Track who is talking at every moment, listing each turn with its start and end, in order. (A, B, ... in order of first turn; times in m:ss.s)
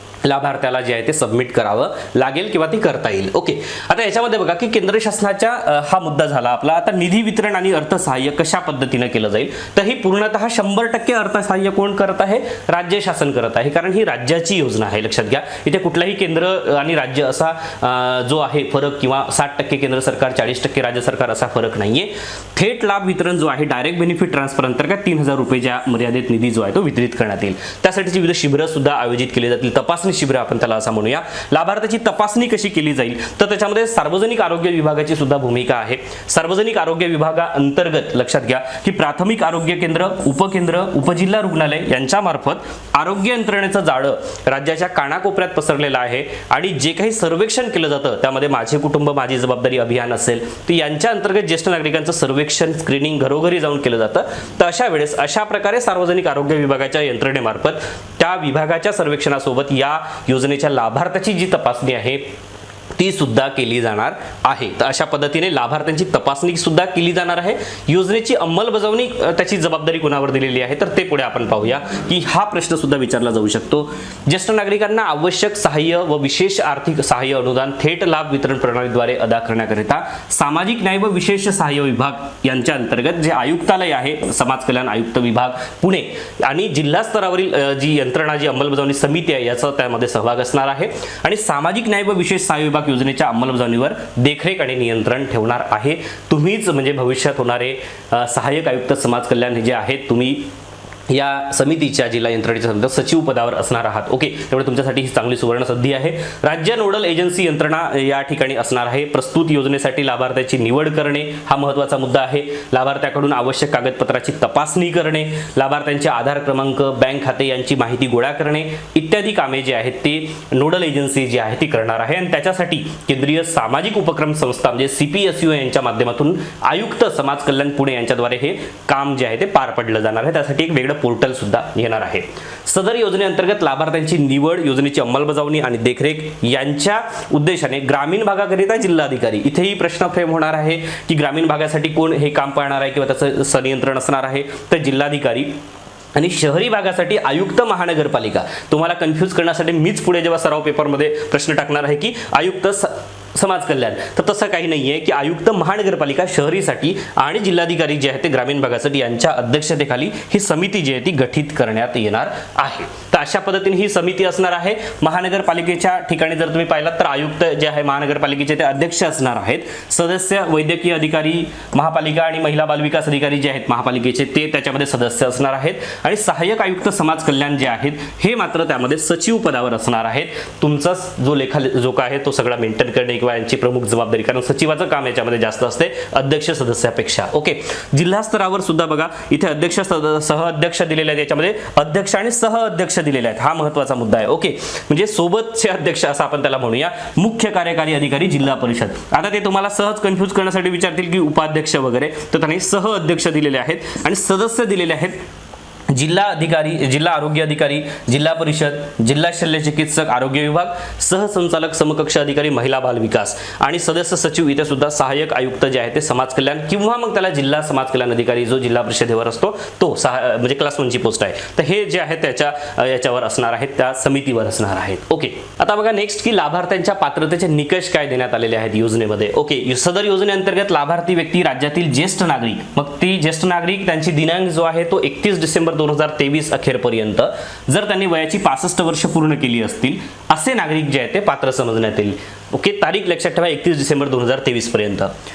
0:00.2-1:02.2 A
1:03.0-1:40.5 A
1:41.1-2:25.6 A
2:26.2-3:25.2 A
3:25.9-4:05.1 A